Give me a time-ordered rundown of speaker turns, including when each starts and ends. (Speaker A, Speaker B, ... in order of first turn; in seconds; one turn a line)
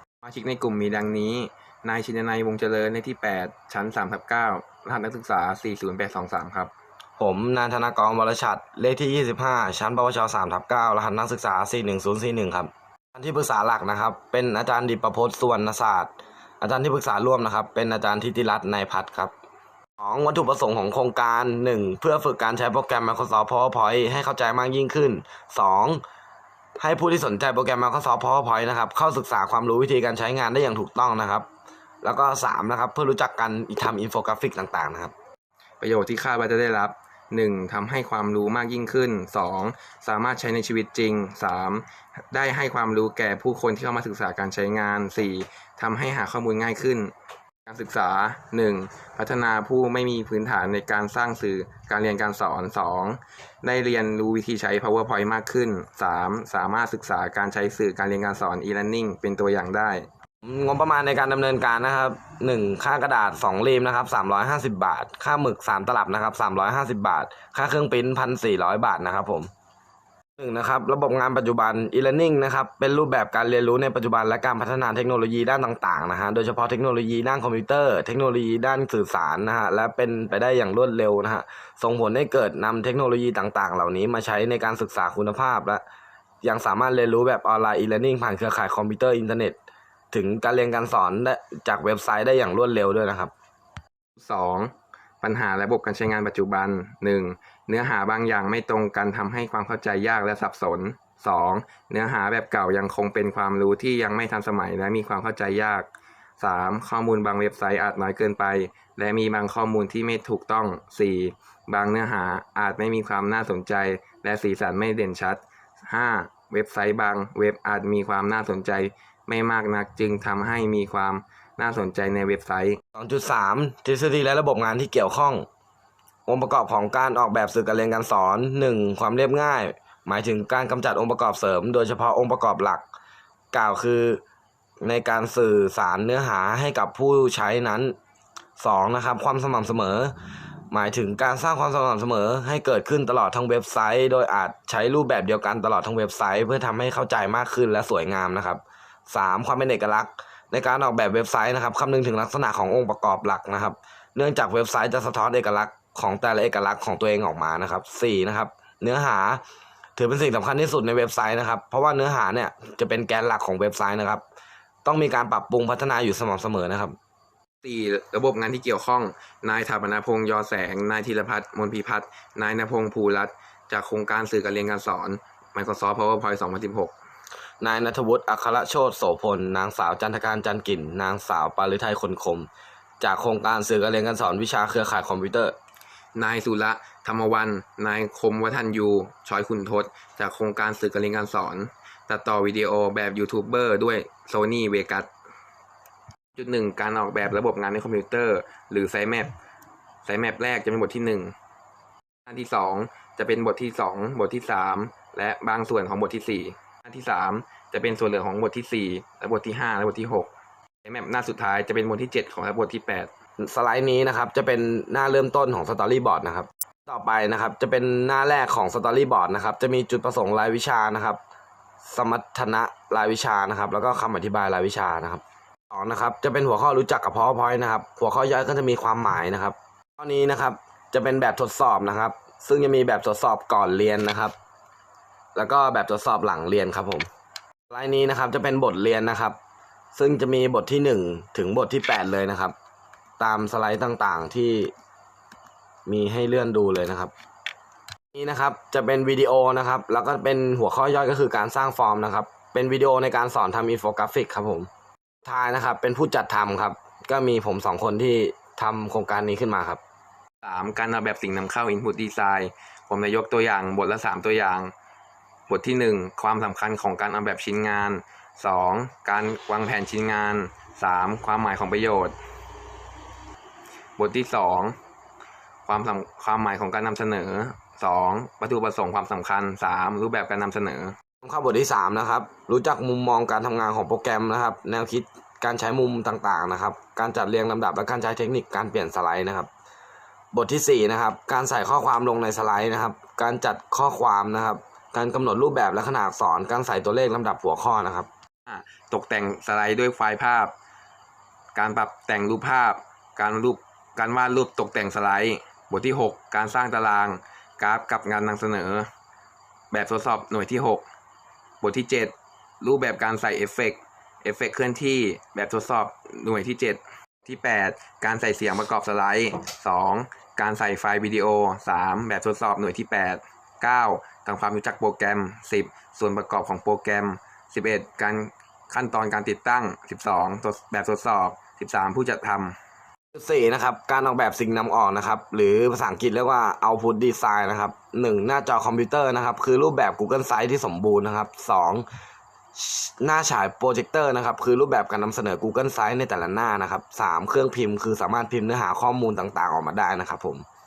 Speaker A: 0.2-6.7
Speaker B: 7.2-19.3
Speaker B: 20.0-26.0
Speaker B: 26.8-31.5
Speaker B: 32.0-35.1
Speaker A: 35.8-47.1
Speaker A: 47.7-60.1
Speaker B: 60.4-69.5
Speaker B: 70.4-85.8
Speaker B: 86.4-89.6
Speaker B: 90.1-93.3
Speaker A: 94.2-105.9
Speaker A: 106.4-122.8
Speaker B: 122.9-125.5
Speaker B: 126.3-132.8
Speaker B: 133.5-134.2
Speaker B: 134.8-137.9
Speaker B: 138.6-140.1
Speaker B: 140.7-159.4
Speaker B: 160.0-164.2
Speaker B: 164.8-166.9
Speaker A: 167.6-176.9
Speaker B: 177.6-182.5
Speaker B: 183.0-185.6
Speaker A: 186.2-195.1
Speaker A: 196.3-199.3
Speaker A: 200.0-201.3
Speaker A: 202.2-210.3
Speaker A: 210.8-213.1
Speaker B: 213.4-221.2
Speaker B: 221.8-234.3
Speaker B: 235.3-237.1
Speaker B: 237.7-239.4
Speaker B: 239.9-242.5
Speaker B: 243.2-244.7
Speaker B: 245.8-247.1
Speaker B: 248.1-254.7
Speaker B: 255.2-259.8
Speaker A: 260.4-264.7
Speaker A: 265.5-272.1
Speaker A: 274.0-274.8
Speaker A: 275.6-280.9
Speaker B: 281.2-289.5
Speaker B: 290.3-298.1
Speaker A: 298.4-300.5
Speaker A: 301.6-308.9
Speaker A: 309.7-310.9
Speaker A: 311.6-332.6
Speaker B: 333.1-341.9
Speaker B: 342.6-350.4